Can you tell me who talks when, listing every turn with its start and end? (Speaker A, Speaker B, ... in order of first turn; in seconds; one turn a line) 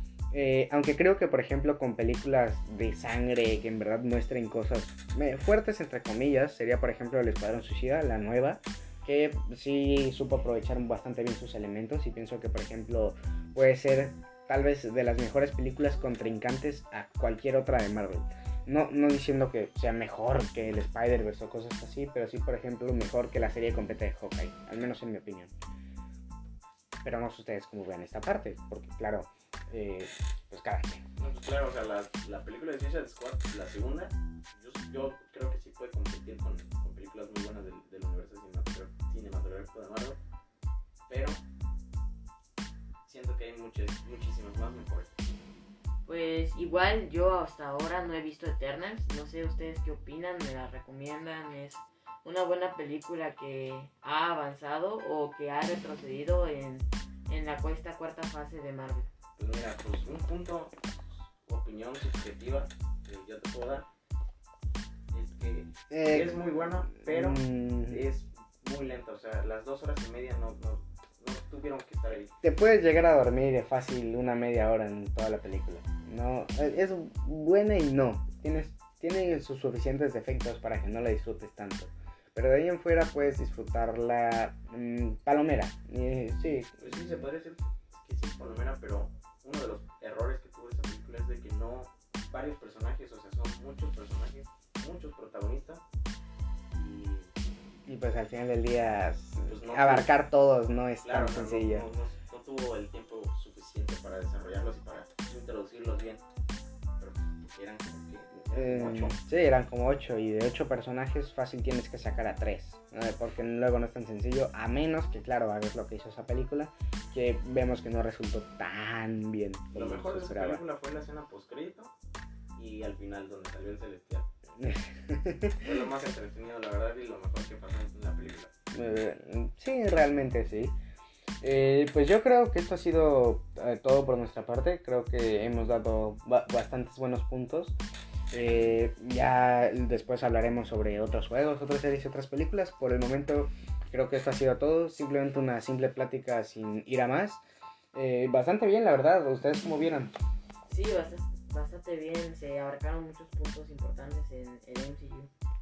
Speaker A: 0.3-25.5
Speaker A: 27.0-31.0
Speaker B: 31.2-40.2
Speaker B: 41.1-41.4
Speaker B: 43.0-45.1
Speaker C: 46.0-59.1
Speaker B: 59.4-60.8
Speaker B: 61.4-63.9
Speaker B: 65.1-72.3
Speaker A: 65.9-66.4
Speaker A: 67.0-68.0
Speaker A: 72.4-87.0
Speaker B: 86.8-95.8
Speaker B: 96.7-97.3
Speaker A: 97.8-101.9
Speaker B: 99.5-100.1
Speaker B: 101.0-106.2
Speaker B: 107.0-109.2
Speaker A: 108.5-120.6
Speaker B: 119.7-121.9
Speaker B: 122.5-124.2
Speaker A: 124.6-125.7
Speaker B: 125.6-128.5
Speaker A: 128.7-130.7
Speaker A: 131.4-137.8
Speaker A: 138.3-147.4
Speaker B: 138.3-138.7
Speaker A: 147.9-150.1
Speaker C: 150.7-155.3